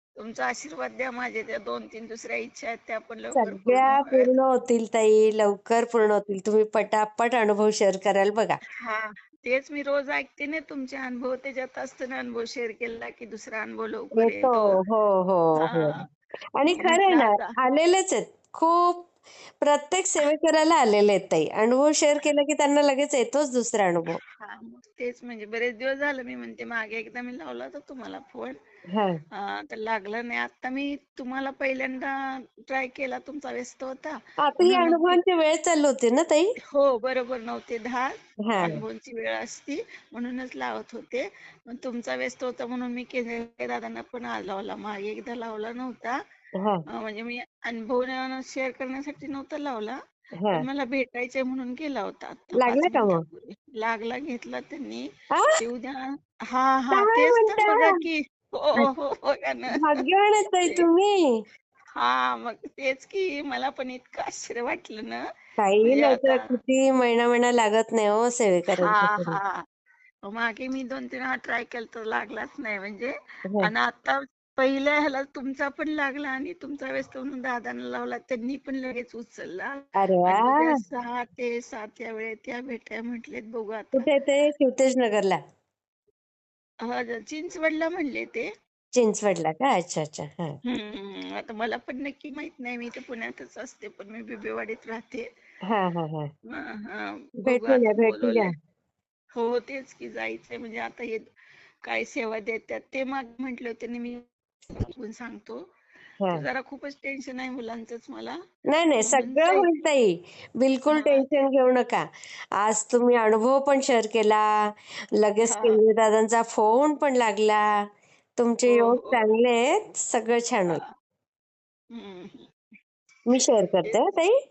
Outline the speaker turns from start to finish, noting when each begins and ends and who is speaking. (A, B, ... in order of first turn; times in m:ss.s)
0:00.2-0:04.3 A
0:03.3-0:08.6 B
0:08.8-0:14.8 A
0:14.2-0:15.9 B
0:15.6-0:16.0 A
0:16.6-0:24.2 B
0:16.7-0:17.6 A
0:24.4-0:28.6 A
0:29.4-0:32.1 A
0:32.7-0:35.2 A
0:34.4-0:36.5 B
0:36.7-0:46.2 A
0:38.5-0:38.8 B
0:46.9-0:50.0 A
0:50.5-0:55.0 A
0:52.6-0:53.2 B
0:55.6-1:00.0 A
0:56.9-0:57.9 B
0:59.8-1:01.2 B
1:02.0-1:05.2 A
1:05.6-1:09.4 B
1:05.8-1:06.5 A
1:08.8-1:09.6 A
1:10.3-1:24.1 A
1:20.0-1:20.8 B
1:23.9-1:25.4 B
1:26.9-1:28.5 A
1:29.0-1:30.6 B
1:30.6-1:35.2 A
1:35.7-1:36.3 B
1:36.5-1:38.5 A
1:37.4-1:38.5 B
1:39.4-1:41.3 A
1:41.8-1:44.2 A
1:44.8-1:45.6 A
1:46.3-1:48.4 A
1:48.7-1:52.0 B
1:49.0-1:49.7 A
1:50.9-1:51.3 A
1:52.6-1:54.4 B
1:55.2-1:57.6 B
1:55.5-1:55.8 A
1:58.4-2:00.8 B
1:58.7-1:59.2 A
2:01.9-2:02.5 A
2:03.3-2:04.3 B